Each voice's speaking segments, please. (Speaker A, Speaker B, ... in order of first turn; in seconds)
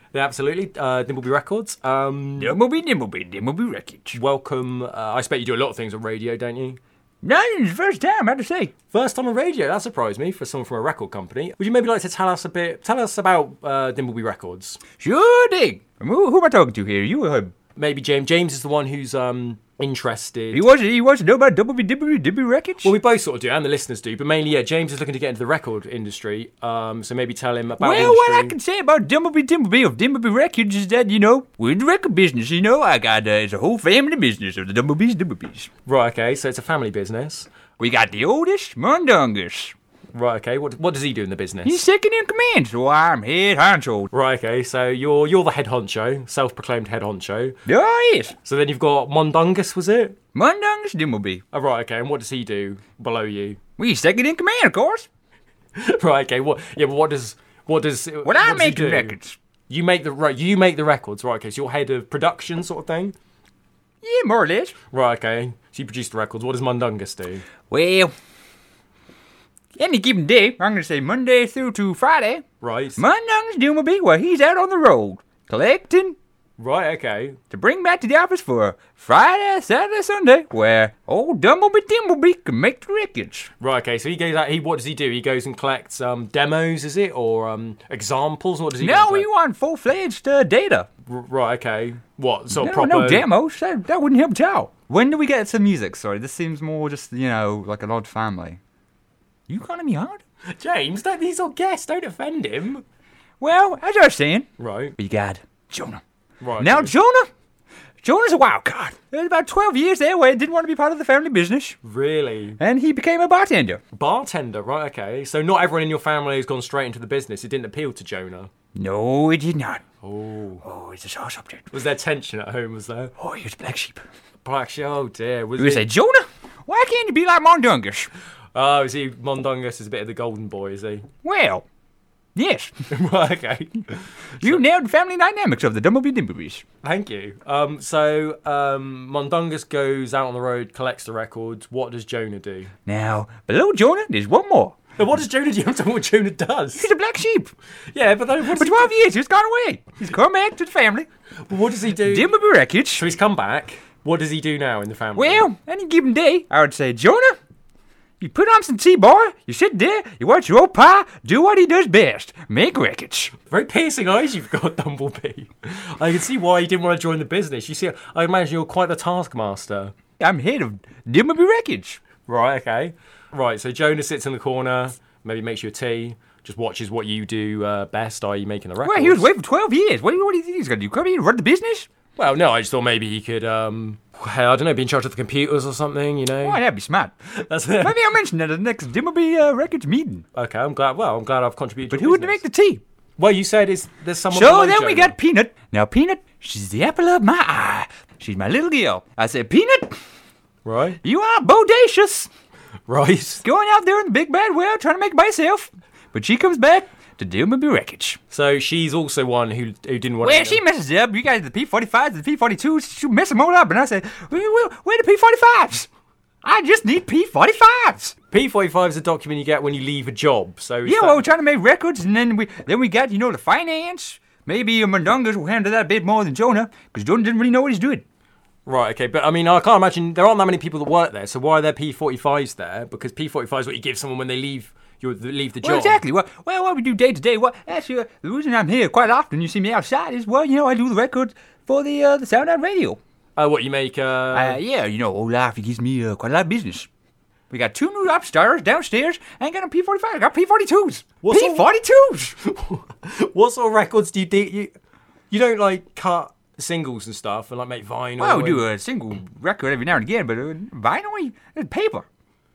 Speaker A: 0.1-2.6, 4.1-6.8, 8.9-14.8, 17.8-20.6, 22.8-28.5, 35.9-37.5, 40.1-41.8, 44.1-47.6, 48.4-50.2, 51.5-53.6, 55.8-59.1, 59.7-63.1, 64.9-67.5, 72.6-73.0, 76.6-77.4, 83.6-89.3, 91.1-93.2, 100.5-102.8, 104.6-105.0, 106.4-106.9, 111.8-112.6, 113.9-118.5, 120.0-120.6, 121.7-123.1, 124.4-125.9, 128.5-131.1, 132.9-134.6, 136.8-142.7, 145.0-146.9, 147.9-148.9, 151.5-152.3, 152.9-155.5, 163.5-169.9, 172.2-179.3, 182.2-186.6, 187.3-188.0, 190.3-192.4, 193.2-195.2, 200.6-201.0, 202.9-203.4, 208.3-210.6, 218.3-221.2, 228.7-236.0, 243.4-244.6, 251.2-251.7, 252.4-254.7, 255.3-258.6
Speaker B: 2.4-4.2, 7.2-8.7, 15.0-17.5, 20.5-22.9, 27.8-35.7, 37.8-39.7, 41.6-44.1, 47.6-48.3, 50.3-51.4, 53.8-55.1, 58.2-59.4, 64.0-64.8, 67.7-68.1, 69.8-72.4, 73.0-76.2, 77.5-83.5, 88.8-90.9, 92.5-98.6, 99.5-100.2, 103.4-106.0, 106.6-107.3, 108.0-111.8, 112.6-113.8, 118.7-119.8, 120.6-121.7, 123.2-124.0, 125.6-128.1, 131.2-131.6, 132.3-132.7, 134.4-136.6, 142.8-144.8, 146.8-147.5, 148.5-151.1, 152.0-153.0, 155.2-157.4, 158.2-163.3, 170.2-172.0, 178.8-181.9, 186.4-187.1, 187.8-190.2, 191.9-192.8, 194.3-200.0, 201.0-202.3, 203.4-208.2, 210.2-215.9, 216.4-218.1, 220.8-228.0, 235.6-243.0, 244.3-246.9, 247.5-252.3, 258.2-262.1